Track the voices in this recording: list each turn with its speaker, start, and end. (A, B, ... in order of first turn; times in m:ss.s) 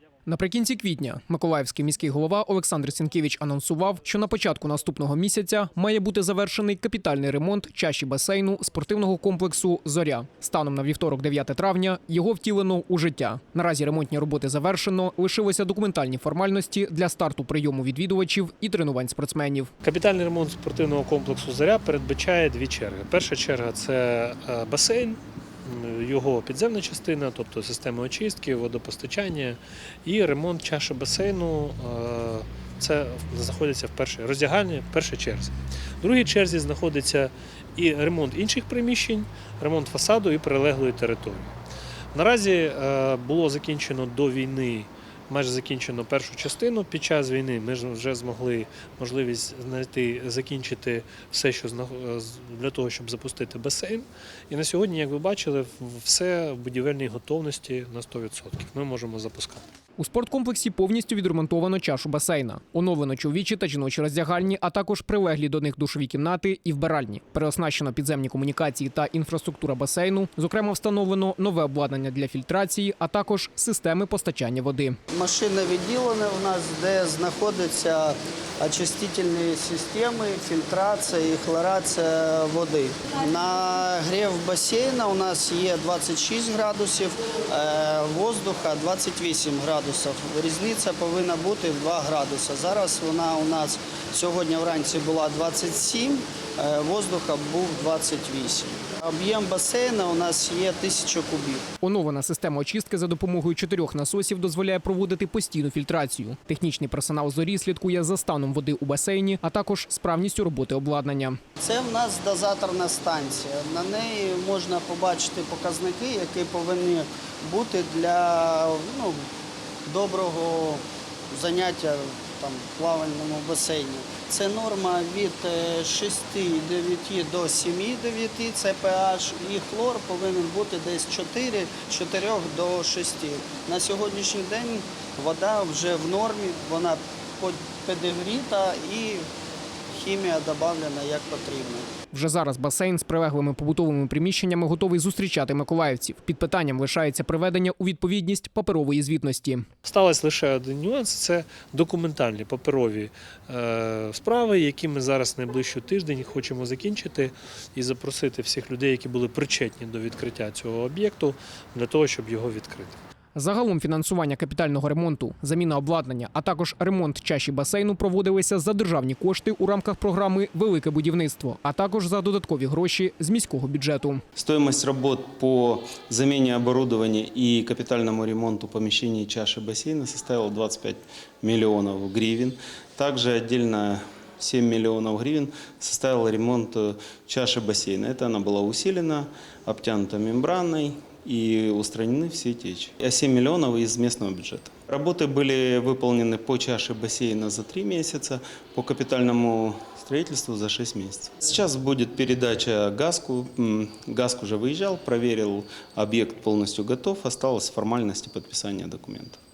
0:00.3-0:19.7 A
0:19.8-0:41.5 B
0:42.1-0:59.6 B
1:00.0-1:15.0 A
1:15.1-1:41.6 C
1:41.8-1:51.4 A
1:51.6-1:59.2 C
1:59.9-2:19.2 C
2:19.9-2:21.9 C
2:22.1-2:29.7 A
2:29.8-2:43.0 B
2:43.4-2:54.2 A
2:54.4-3:29.4 D